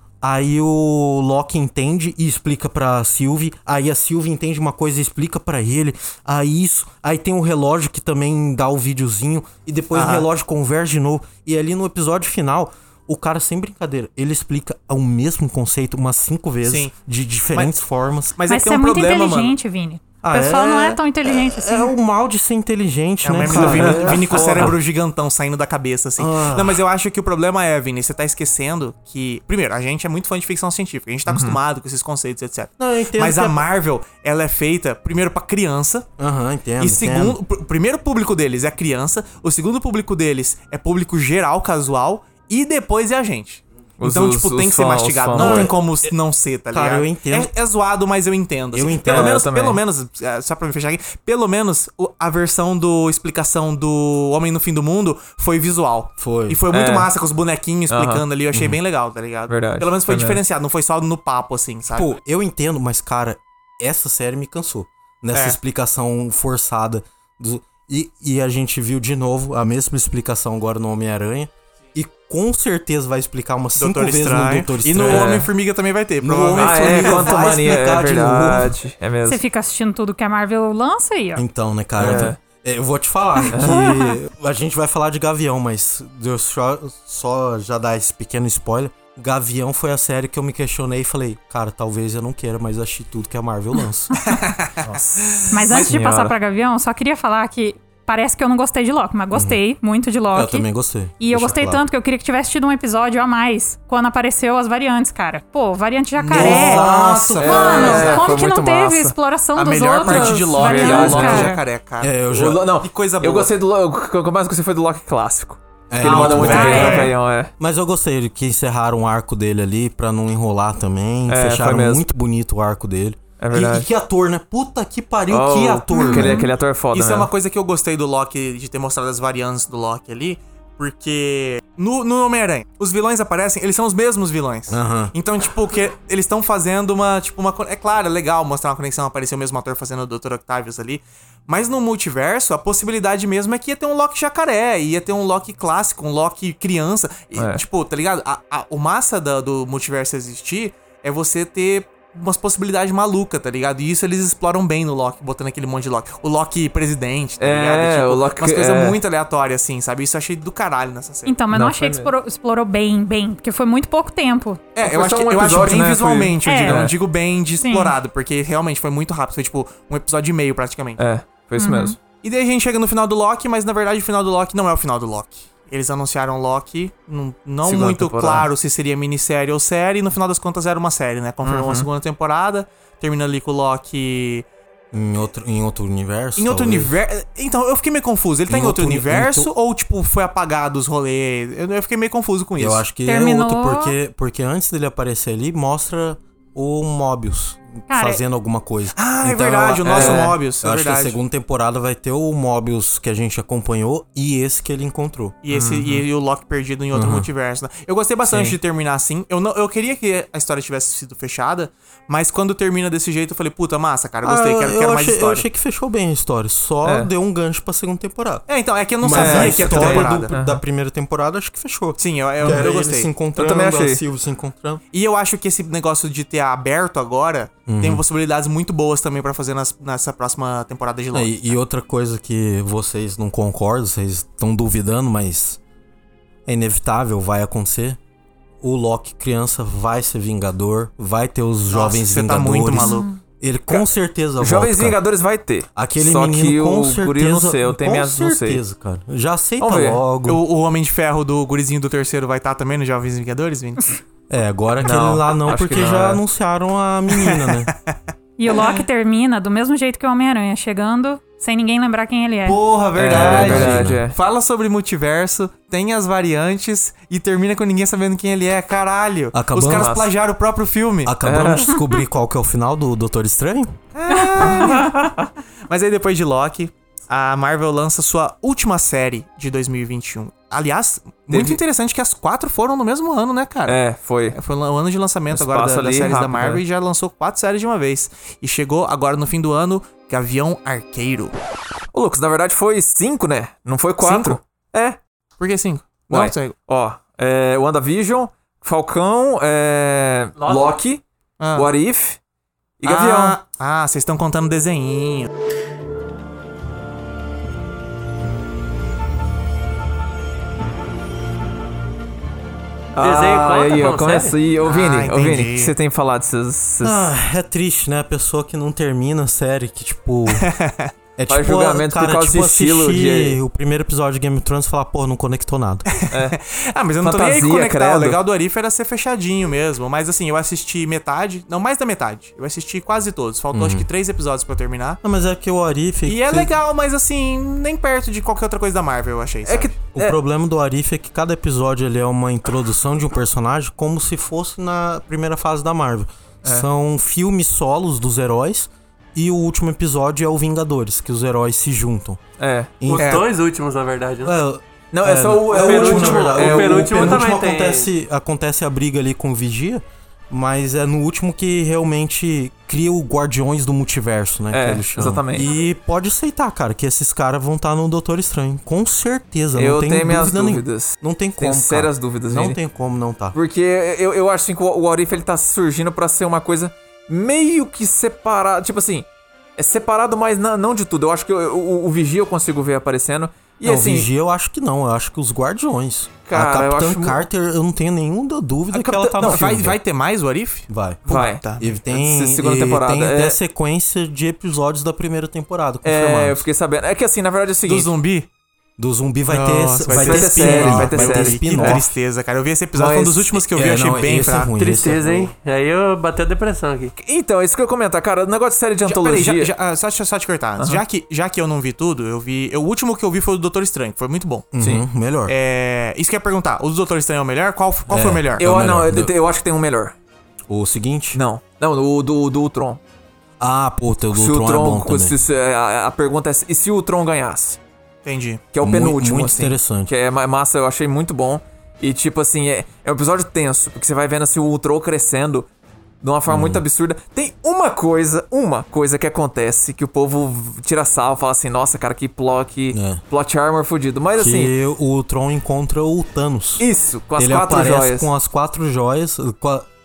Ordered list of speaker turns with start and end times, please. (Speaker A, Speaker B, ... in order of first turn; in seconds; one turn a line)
Speaker A: 0.2-18.4
Speaker B: 9.9-10.2
Speaker B: 16.6-16.9
Speaker B: 18.4-19.6
Speaker C: 18.5-21.9
Speaker A: 20.2-24.8
Speaker B: 23.2-36.1
Speaker D: 23.4-24.7
Speaker A: 26.2-26.8
Speaker D: 31.3-31.6
Speaker A: 32.8-33.6
Speaker A: 36.2-37.4
Speaker B: 36.8-62.1
Speaker D: 44.0-45.7
Speaker A: 45.3-46.1
Speaker A: 46.7-47.5
Speaker A: 48.7-49.4
Speaker D: 49.0-49.8
Speaker A: 56.2-56.6
Speaker D: 56.7-57.1
Speaker D: 57.9-58.2
Speaker A: 58.5-58.8
Speaker D: 59.5-60.4
Speaker A: 61.9-75.4
Speaker B: 73.8-77.5
Speaker D: 75.0-75.5
Speaker A: 76.2-78.7
Speaker D: 76.5-79.4
Speaker C: 79.2-81.4
Speaker A: 81.3-94.1
Speaker D: 82.0-82.4
Speaker D: 83.5-83.9
Speaker B: 94.2-95.9
Speaker C: 95.5-100.7
Speaker D: 95.7-96.3
Speaker A: 99.3-99.6
Speaker A: 100.3-101.8
Speaker C: 101.2-111.6
Speaker B: 106.1-108.3
Speaker A: 106.3-108.2
Speaker D: 107.4-109.1
Speaker B: 109.5-112.1
Speaker D: 110.0-111.5
Speaker A: 112.0-112.7
Speaker D: 112.3-117.5
Speaker B: 112.8-113.5
Speaker A: 115.9-126.4
Speaker B: 116.0-117.1
Speaker C: 116.4-117.1
Speaker D: 121.3-122.0
Speaker D: 123.4-123.9
Speaker D: 125.3-127.3
Speaker C: 125.9-126.5
Speaker B: 126.9-161.4
Speaker A: 134.7-135.1
Speaker D: 147.3-147.6
Speaker D: 157.4-159.0
Speaker C: 161.2-164.6
Speaker D: 161.5-162.1
Speaker B: 164.7-171.0
Speaker D: 164.8-166.9
Speaker C: 166.4-166.9
Speaker C: 167.6-168.0
Speaker D: 171.0-172.0
Speaker C: 171.6-172.0
Speaker B: 172.2-184.5
Speaker D: 177.6-178.5
Speaker D: 181.4-181.9
Speaker A: 184.9-186.9
Speaker B: 186.4-192.9
Speaker A: 188.5-189.5
Speaker A: 192.6-205.3
Speaker C: 193.0-193.9
Speaker C: 197.9-198.2
Speaker B: 198.9-201.2
Speaker D: 199.8-200.4
Speaker B: 205.4-215.4
Speaker D: 205.5-206.0
Speaker A: 206.9-207.3
Speaker D: 208.2-208.6
Speaker A: 214.2-218.4
Speaker D: 216.8-217.1
Speaker B: 218.5-220.3
Speaker A: 219.0-224.8
Speaker D: 219.1-220.6
Speaker B: 222.0-223.1
Speaker D: 222.4-222.7
Speaker D: 223.3-224.0
Speaker B: 224.9-231.6
Speaker A: 227.7-228.0
Speaker A: 231.1-235.6
Speaker A: 236.4-238.0
Speaker A: 238.6-245.0
Speaker B: 241.7-243.1
Speaker C: 242.8-243.2
Speaker D: 244.4-248.6
Speaker A: 245.7-250.4
Speaker D: 249.6-250.0
Speaker B: 250.2-254.0
Speaker A: 254.3-257.7
Speaker D: 254.8-256.2
Speaker B: 257.2-257.9
Speaker C: 258.4-262.6
Speaker A: 262.4-264.0
Speaker B: 262.9-271.1
Speaker D: 262.9-264.1
Speaker A: 269.3-269.9
Speaker D: 269.6-270.1
Speaker A: 271.0-273.7
Speaker D: 271.2-271.8
Speaker B: 273.9-275.1
Speaker D: 274.4-275.0
Speaker B: 275.7-283.8
Speaker D: 281.3-281.6
Speaker D: 283.6-284.4
Speaker B: 284.3-291.3
Speaker D: 285.3-286.6
Speaker D: 291.9-295.0
Speaker B: 294.0-294.4
Speaker B: 295.4-296.5
Speaker D: 296.1-301.0
Speaker E: 300.4-300.8
Speaker B: 301.4-301.7
Speaker D: 301.5-302.2
Speaker D: 302.8-303.4
Speaker B: 302.8-305.3
Speaker D: 312.9-317.0
Speaker E: 313.0-314.4
Speaker B: 314.6-315.7
Speaker A: 316.8-320.5
Speaker B: 320.3-320.9
Speaker A: 321.2-325.9
Speaker D: 321.3-323.4
Speaker B: 326.1-335.0
Speaker D: 326.1-326.4
Speaker D: 327.0-328.2
Speaker A: 333.5-333.9
Speaker A: 335.0-336.5
Speaker B: 336.1-339.8
Speaker D: 339.4-340.2
Speaker A: 339.9-352.2
Speaker D: 352.4-353.1
Speaker A: 352.8-353.2
Speaker E: 352.9-354.4
Speaker A: 354.2-373.4
Speaker D: 354.9-357.2
Speaker E: 355.5-357.9
Speaker D: 364.5-365.4
Speaker D: 369.5-372.6
Speaker D: 373.3-379.1
Speaker D: 379.6-384.1
Speaker A: 383.6-389.8
Speaker D: 386.2-387.2
Speaker D: 388.7-389.5
Speaker B: 389.2-391.7
Speaker A: 390.7-391.0
Speaker D: 391.1-393.4
Speaker A: 391.6-396.4
Speaker D: 395.8-397.9
Speaker B: 397.7-398.3
Speaker A: 398.8-401.9
Speaker B: 399.3-404.5
Speaker D: 399.9-401.8
Speaker D: 402.7-403.4
Speaker A: 403.5-405.2
Speaker E: 404.6-406.9
Speaker D: 406.9-409.5
Speaker B: 408.8-414.5
Speaker A: 414.5-415.3
Speaker D: 414.6-414.8
Speaker B: 415.3-418.4
Speaker A: 417.9-419.1
Speaker D: 418.4-419.9
Speaker A: 420.5-421.2
Speaker D: 421.1-422.8
Speaker A: 423.4-425.2
Speaker D: 424.1-427.6
Speaker B: 428.0-428.4
Speaker D: 428.5-435.5
Speaker A: 428.6-429.9
Speaker D: 436.0-444.5
Speaker A: 436.3-436.6
Speaker A: 442.7-443.0
Speaker A: 444.2-446.6
Speaker D: 446.6-448.1
Speaker A: 447.2-449.7